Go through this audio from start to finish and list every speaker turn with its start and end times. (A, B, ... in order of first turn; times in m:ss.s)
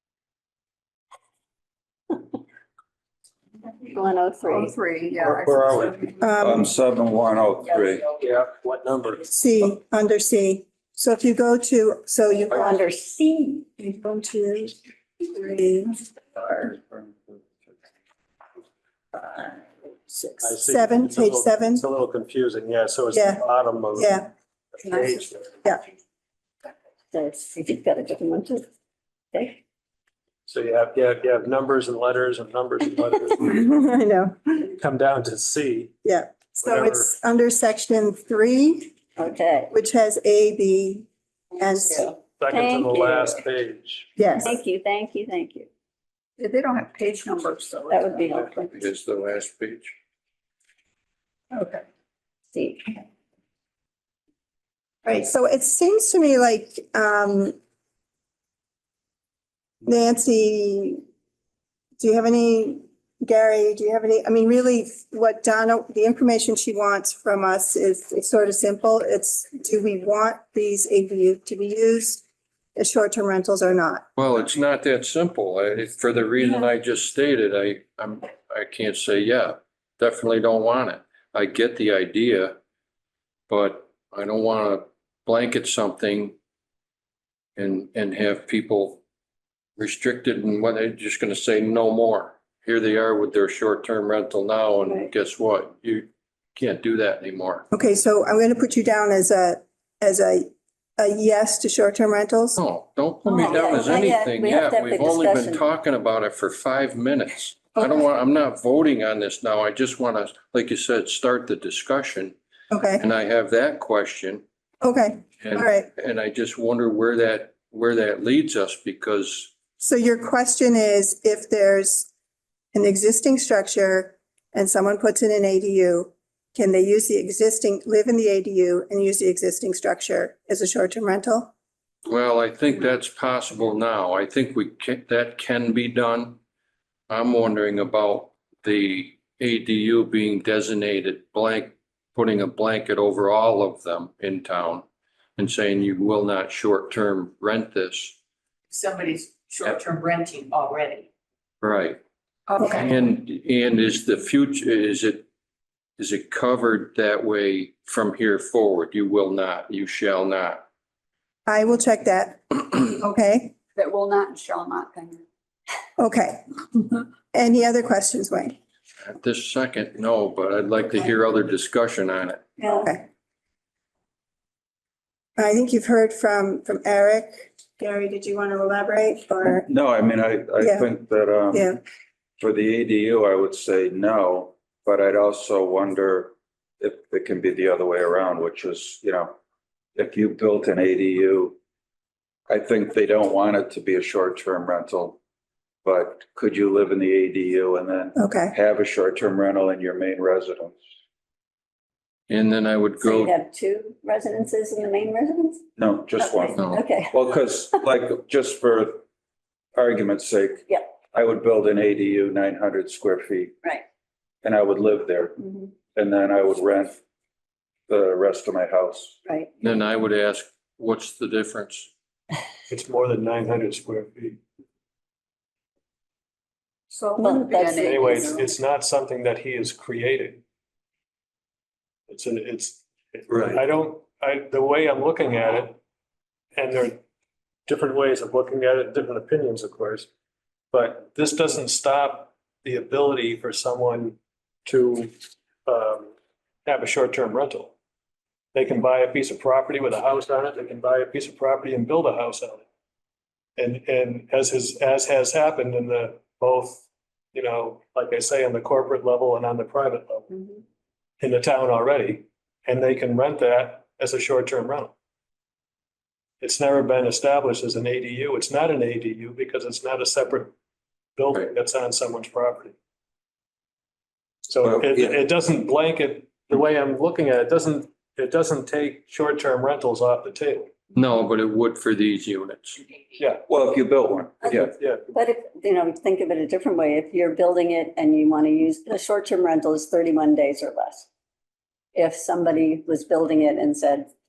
0:03.8-0:04.7 A
0:04.9-0:05.3 B
0:06.2-0:06.7 C
0:06.4-0:08.0 D
0:08.2-0:09.2 E
0:09.3-0:12.8 C
0:12.5-0:13.7 A
0:13.8-0:16.7 C
0:20.4-0:25.5 E
0:20.6-0:21.8 C
0:23.1-0:24.3 C
0:27.1-0:28.7 A
0:29.3-0:29.6 A
0:30.5-0:33.6 E
0:33.4-0:34.7 C
0:34.8-0:35.9 E
0:36.0-0:39.0 C
0:36.6-0:37.1 E
0:39.2-0:39.7 A
0:39.7-0:41.1 C
0:41.6-0:42.0 C
0:42.4-0:44.2 E
0:42.5-0:43.4 A
0:44.2-0:44.6 C
0:44.3-0:45.7 A
0:46.4-0:48.2 B
0:47.9-0:48.8 A
0:48.7-0:49.9 F
0:51.5-0:51.8 C
0:52.5-0:53.0 A
0:55.0-0:57.6 C
0:59.8-1:01.0 C
1:02.0-1:12.2 C
1:12.8-1:14.0 C
1:14.2-1:22.6 F
1:23.5-1:26.4 F
1:27.6-1:29.0 F
1:29.8-1:37.7 F
1:37.7-1:42.6 C
1:42.6-1:52.4 F
1:43.2-1:45.6 A
1:43.5-1:43.9 C
1:47.8-1:48.0 C
1:52.7-1:53.0 C
1:53.0-1:54.4 F
1:54.8-1:55.9 C
1:55.4-1:59.5 F
1:59.8-2:02.1 C
2:02.7-2:11.5 C
2:12.1-2:16.4 F
2:17.1-2:24.8 F
2:25.4-2:28.2 F
2:28.7-2:31.1 G
2:31.6-2:32.0 F
2:32.6-2:32.9 C
2:32.7-2:35.3 F
2:36.0-2:40.6 F
2:41.4-2:43.5 C
2:43.8-2:45.2 B
2:46.0-2:48.6 C
2:49.0-2:52.4 F
2:52.6-2:52.9 A
2:52.7-2:53.0 C
2:55.4-2:59.7 C
2:59.4-3:01.8 D
3:00.6-3:00.9 C
3:01.5-3:01.8 C
3:02.4-3:09.4 D
3:10.0-3:11.6 D
3:12.5-3:15.2 D
3:15.8-3:20.8 D
3:18.2-3:18.5 C
3:22.3-3:23.3 F
3:23.0-3:25.7 A
3:25.8-3:29.0 D
3:26.2-3:27.1 A
3:26.6-3:26.8 F
3:29.8-3:33.5 D
3:34.4-3:37.0 D
3:35.4-3:35.7 A
3:37.9-3:39.2 D
3:39.2-3:39.5 A
3:39.6-3:41.9 F
3:42.7-3:44.4 E
3:46.9-3:48.4 B
3:47.2-3:48.3 A
3:47.8-3:50.4 E
3:52.1-3:55.8 E
3:53.3-3:53.6 D
3:56.5-3:57.0 E
3:57.7-4:00.1 E
4:00.7-4:05.1 E
4:05.6-4:06.1 E
4:06.6-4:07.7 E
4:08.5-4:12.6 E
4:13.6-4:16.8 E
4:17.3-4:20.3 E
4:21.2-4:24.9 E
4:26.4-4:30.5 E
4:31.2-4:32.7 E
4:34.5-4:40.7 E
4:34.6-4:35.2 D
4:40.9-4:42.8 F
4:43.5-4:44.7 D
4:44.4-4:51.1 A
4:44.5-4:45.1 E
4:51.9-4:54.1 A